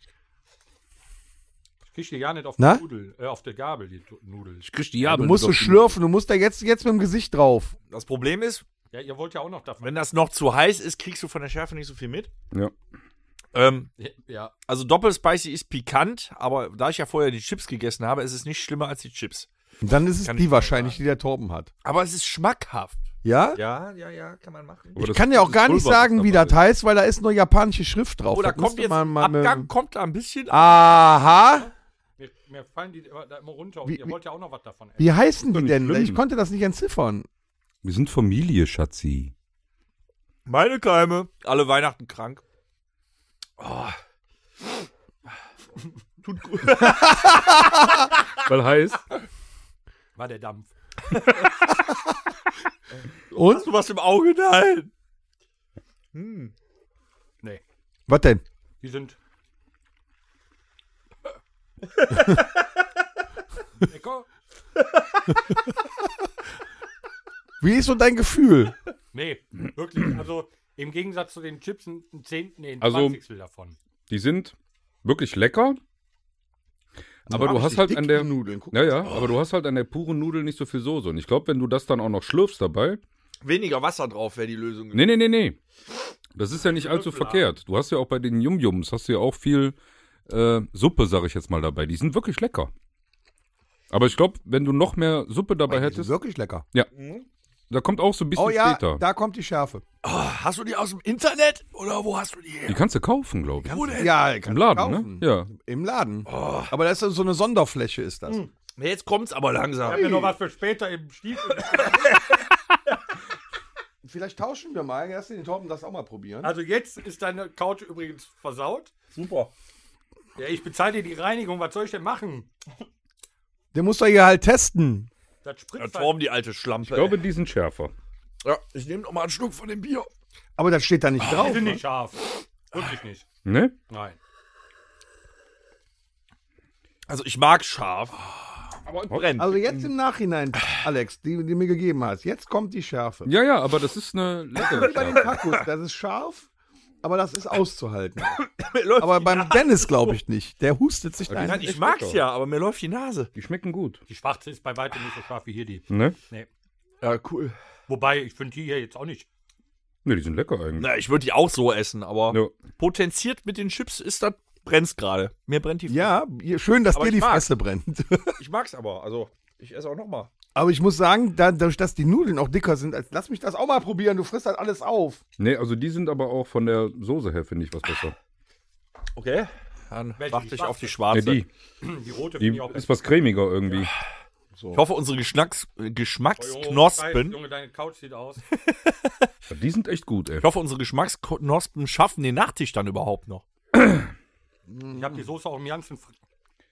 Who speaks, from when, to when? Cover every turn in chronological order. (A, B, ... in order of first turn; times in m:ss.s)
0:01.9-0:04.6 A
0:02.6-0:02.8 B
0:04.6-0:05.8 C
0:05.0-0:07.7 B
0:07.9-0:08.6 D
0:08.9-0:10.0 A
0:09.8-0:12.3 D
0:13.5-0:13.9 D
0:14.0-0:14.5 A
0:14.7-0:19.5 D
0:19.8-0:21.7 B
0:20.2-0:21.0 D
0:21.8-0:26.6 D
0:23.2-0:23.6 B
0:25.0-0:25.4 C
0:25.0-0:29.7 B
0:28.3-0:31.0 D
0:30.5-0:31.7 B
0:32.2-0:35.1 A
0:33.8-0:34.1 B
0:35.0-0:37.2 B
0:35.5-0:36.2 C
0:37.8-0:39.3 C
0:40.4-0:42.4 D
0:43.6-0:44.0 D
0:46.2-0:47.8 D
0:46.8-0:47.8 B
0:48.4-0:49.0 C
0:50.2-0:50.7 A
0:51.1-0:51.5 D
0:53.3-0:54.9 D
0:53.3-0:53.7 B
0:56.1-0:56.5 D
0:58.1-0:58.4 B
0:58.8-0:59.2 A
1:03.8-1:04.3 A
1:07.6-1:08.7 B
1:09.1-1:13.8 A
1:12.8-1:13.2 C
1:14.1-1:15.8 C
1:17.3-1:19.2 B
1:17.3-1:23.0 C
1:23.4-1:25.2 D
1:24.9-1:25.6 C
1:26.4-1:29.8 C
1:26.8-1:27.4 D
1:30.3-1:32.7 C
1:33.9-1:36.1 C
1:35.7-1:36.6 B
1:36.9-1:37.2 D
1:37.7-1:39.0 C
1:38.3-1:39.8 B
1:40.0-1:42.8 D
1:42.7-1:45.5 C
1:43.6-1:44.1 D
1:43.9-1:48.4 B
1:46.3-1:46.7 D
1:48.8-1:50.3 D
1:49.8-1:50.3 B
1:49.8-1:52.2 A
1:54.0-1:56.5 B
1:56.4-1:58.9 A
1:59.1-1:59.5 D
2:00.4-2:02.5 A
2:03.7-2:05.1 B
2:05.4-2:06.2 A
2:05.8-2:07.2 D
2:06.8-2:07.9 C
2:08.4-2:10.1 D
2:10.6-2:11.8 B
2:11.3-2:13.2 A
2:13.4-2:13.7 C
2:13.9-2:14.2 A
2:17.1-2:18.2 D
2:18.9-2:19.6 D
2:19.1-2:19.8 C
2:19.4-2:23.3 B
2:23.2-2:25.3 C
2:24.6-2:26.5 B
2:24.6-2:25.6 D
2:27.0-2:28.4 B
2:28.3-2:30.2 D
2:29.0-2:31.7 B
2:31.3-2:32.2 C
2:31.4-2:33.3 D
2:33.3-2:34.0 C
2:34.1-2:36.5 A
2:35.9-2:36.2 C
2:37.0-2:37.5 D
2:37.9-2:39.3 A
2:40.0-2:40.9 C
2:40.8-2:46.1 D
2:45.9-2:48.4 B
2:46.9-2:47.4 D
2:48.4-2:50.3 D
2:50.5-2:55.2 B
2:55.4-2:58.1 C
2:59.2-3:01.4 D
3:00.2-3:01.0 A
3:01.1-3:01.5 C
3:01.8-3:02.9 A
3:02.4-3:03.9 C
3:04.5-3:04.8 B
3:04.7-3:07.4 D
3:06.4-3:08.4 A
3:08.7-3:09.2 D
3:09.5-3:10.4 C
3:10.4-3:13.4 D
3:14.7-3:15.2 B
3:14.9-3:16.1 A